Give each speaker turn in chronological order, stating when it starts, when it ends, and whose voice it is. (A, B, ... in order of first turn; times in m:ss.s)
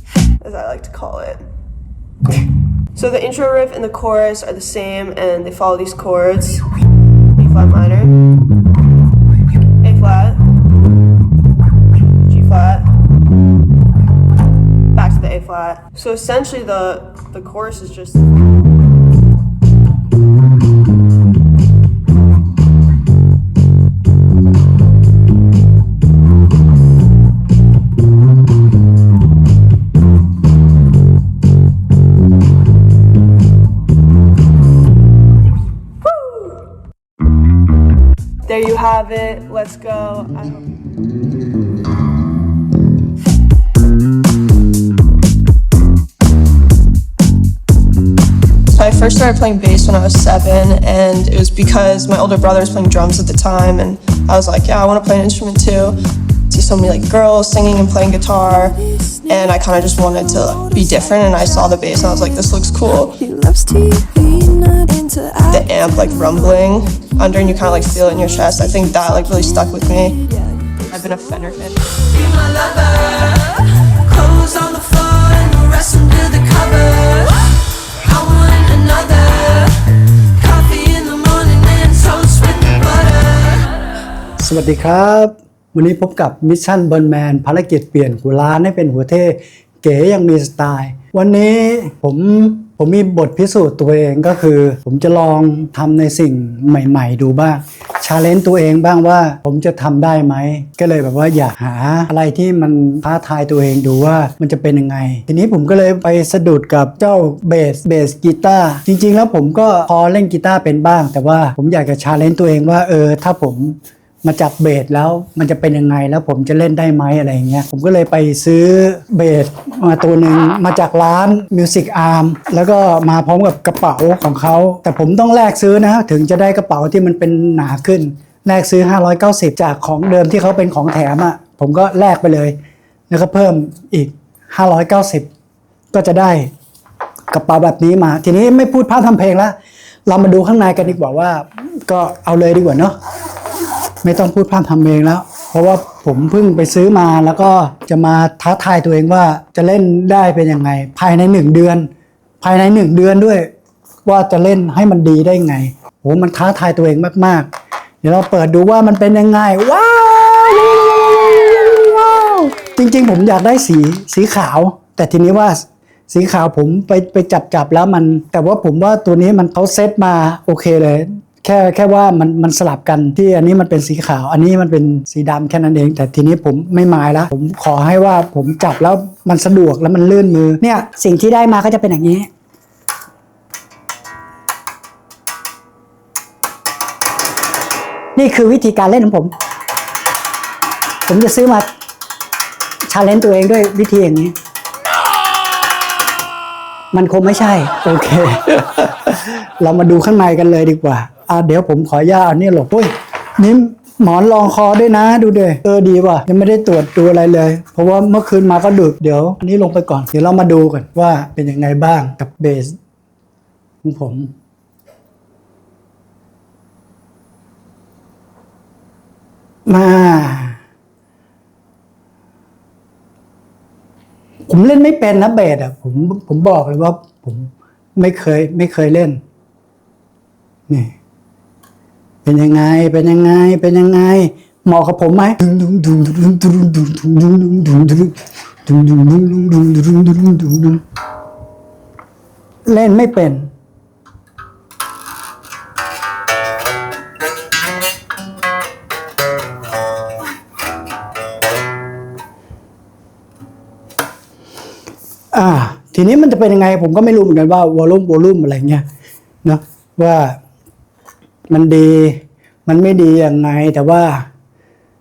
0:00.4-0:01.4 A
0:03.0-0:06.6 A
0:07.4-0:08.1 A
0:09.8-0:10.4 A
0:12.3-0:12.9 A
0:14.9-0:18.3 A
0:38.5-0:40.7 A
0:48.7-0:56.0 A
0:56.5-1:03.4 A
1:03.2-1:05.5 B
1:05.5-1:13.6 A
1:10.3-1:10.8 B
1:14.1-1:17.4 B
1:14.3-1:14.8 A
1:18.1-1:19.4 B
1:18.5-1:19.7 A
1:20.4-1:23.6 B
1:20.7-1:21.8 A
1:24.4-2:12.6 C
2:13.1-2:15.3 C
2:15.9-2:16.5 C
2:17.3-2:19.6 C
2:20.1-2:23.0 C
2:24.0-2:31.9 C
2:32.4-2:33.5 C
2:34.0-2:37.5 C
2:38.0-3:02.3 C
3:08.2-3:09.3 C
3:11.1-3:11.7 C
3:12.9-3:14.4 C
3:16.9-3:32.8 C
3:33.8-3:34.3 C
3:39.7-3:40.6 C
3:44.5-3:49.2 C
3:50.7-3:50.9 C
3:52.2-3:58.1 C
3:58.7-4:00.8 C
4:02.7-4:03.5 C
4:15.3-4:18.8 C
4:19.4-4:20.4 C
4:21.5-4:24.3 C